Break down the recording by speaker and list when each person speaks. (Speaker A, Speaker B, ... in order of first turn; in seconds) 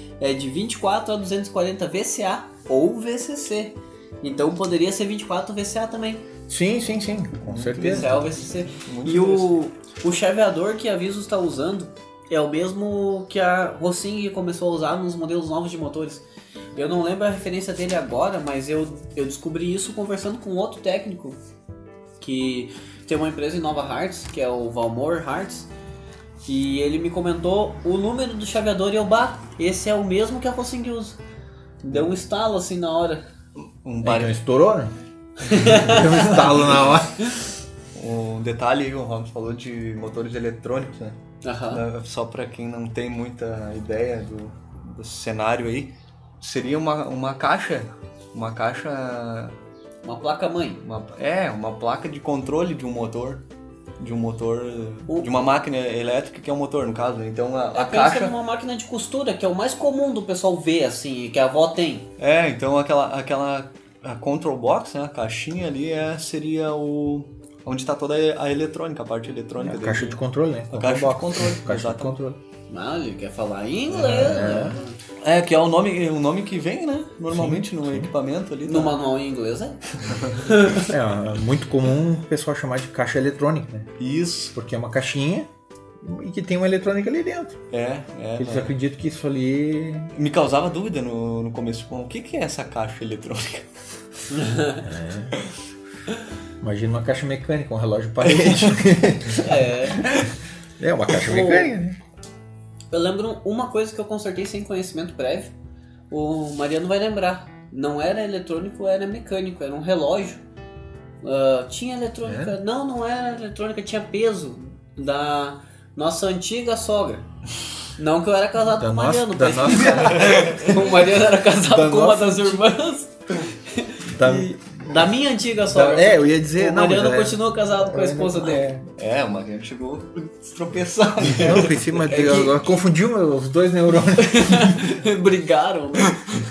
Speaker A: 0.2-6.2, 7.8-21.4, 22.2-25.7, 26.4-31.2, 31.8-33.2, 35.4-36.4, 41.4-41.8, 50.0-50.8, 57.7-62.1, 72.7-75.0, 78.7-79.8, 80.5-80.9, 94.3-94.8, 99.4-100.1, 101.2-101.7, 102.9-105.5, 106.1-110.4, 111.2-117.3, 118.0-128.7, 134.2-136.2
Speaker B: 6.5-8.2, 34.0-34.9, 35.6-37.4, 69.6-72.4, 73.9-74.8, 77.3-78.1, 80.8-83.9, 84.5-87.6, 88.4-90.1, 94.8-95.4, 96.6-99.5, 100.8-102.0, 112.2-112.5, 118.8-120.5, 124.0-125.2, 125.7-128.9, 131.3-135.0
Speaker C: 7.5-9.5, 33.6-34.3, 36.1-36.9, 37.9-41.2, 41.7-49.6, 50.8-53.4, 54.0-58.4, 62.2-70.2, 70.7-72.2, 75.2-79.0, 80.0-80.5, 84.0-84.5, 87.7-88.7, 90.1-93.9, 98.3-98.8, 119.9-120.8, 121.6-122.7, 129.0-132.6